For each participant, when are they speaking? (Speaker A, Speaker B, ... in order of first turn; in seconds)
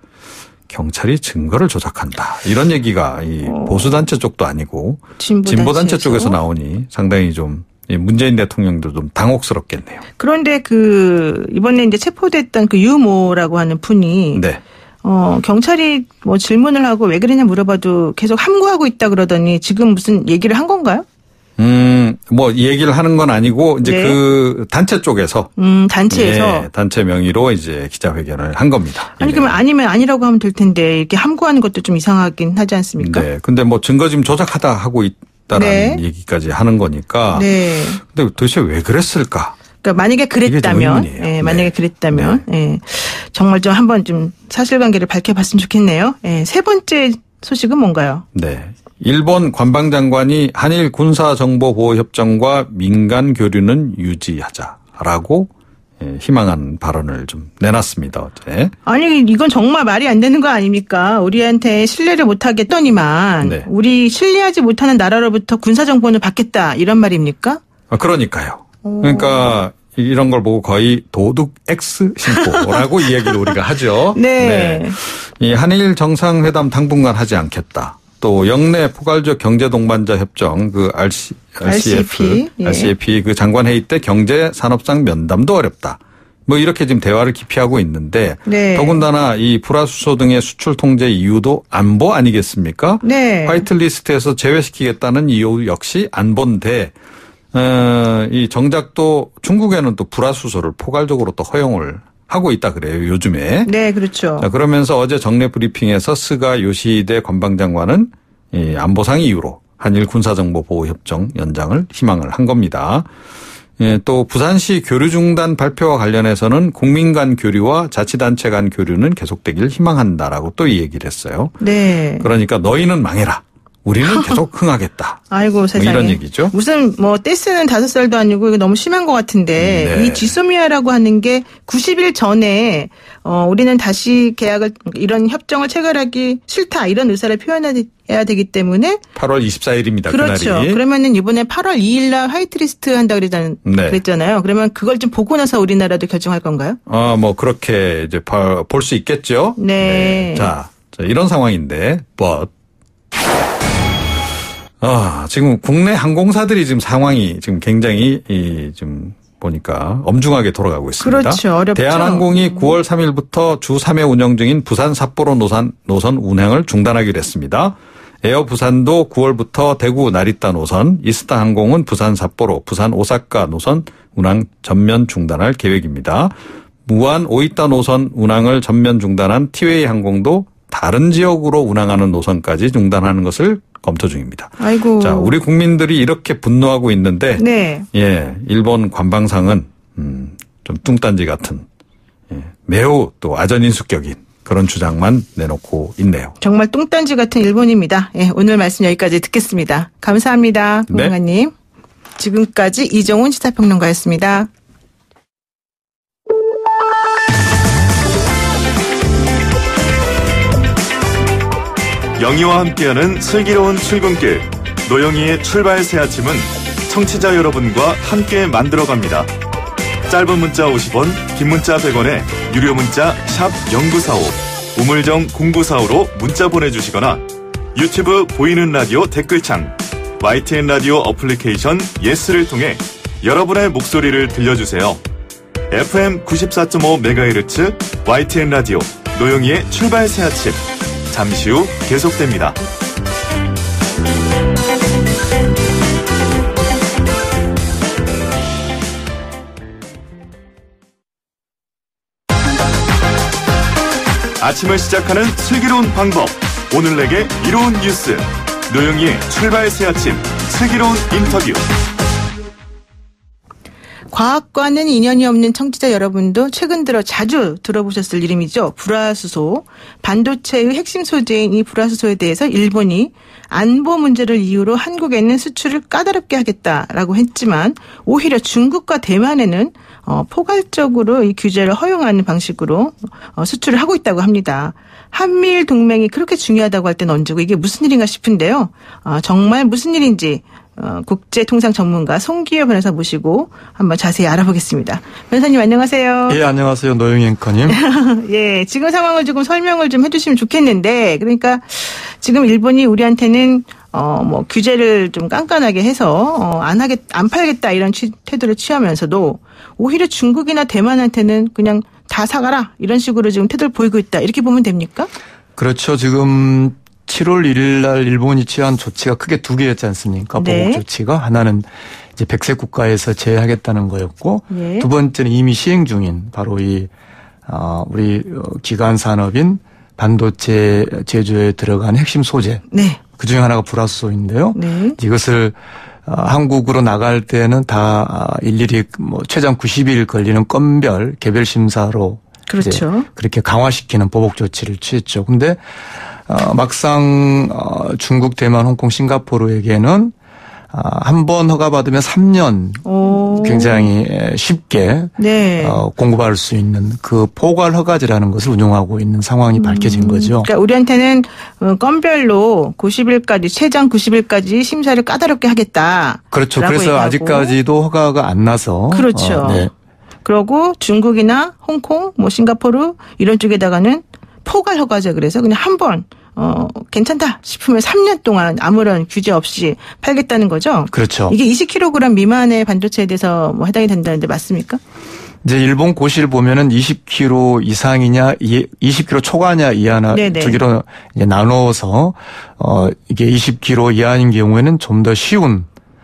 Speaker A: 0.7-10.1, 14.3-14.6, 21.6-25.5, 26.1-29.6, 33.0-39.5, 40.5-42.4, 48.4-55.5, 56.0-58.7, 67.9-96.9, 97.5-103.7, 104.4-113.1, 113.8-121.6, 122.2-126.5, 129.6-130.3, 139.2-140.8, 143.7-144.0, 146.9-152.5, 154.8-176.3, 176.9-191.7, 192.3-196.3
Speaker B: 3.4-4.0, 5.2-6.4, 10.2-14.4, 15.0-21.1, 23.8-24.2, 25.6-26.7, 29.2-33.3, 35.5-36.0, 37.3-38.0, 39.8-48.2, 58.9-67.6, 68.8-69.6, 72.3-72.8, 74.1-75.0, 81.6-82.9, 88.5-89.0, 93.0-93.7, 103.7-104.5, 121.6-122.3, 124.1-124.3, 125.3-139.0, 140.1-146.8, 149.6-150.5, 161.0-162.8, 184.6-185.3, 187.4-187.9, 196.4-201.5, 202.2-204.5, 264.1-296.4, 297.7-315.1, 320.4-320.8, 324.5-324.9, 332.7-333.0, 334.6-335.0, 342.5-343.1, 352.9-353.9, 355.2-355.8, 359.6-367.6, 368.9-369.7, 370.2-384.8, 390.1-390.6
Speaker C: 212.2-219.3, 220.1-235.0, 235.7-242.6, 254.4-261.6
Speaker D: 296.3-297.8, 315.6-326.9, 327.5-345.6, 346.3-350.1, 350.7-360.5, 366.3-369.7, 380.9-381.4, 385.4-395.7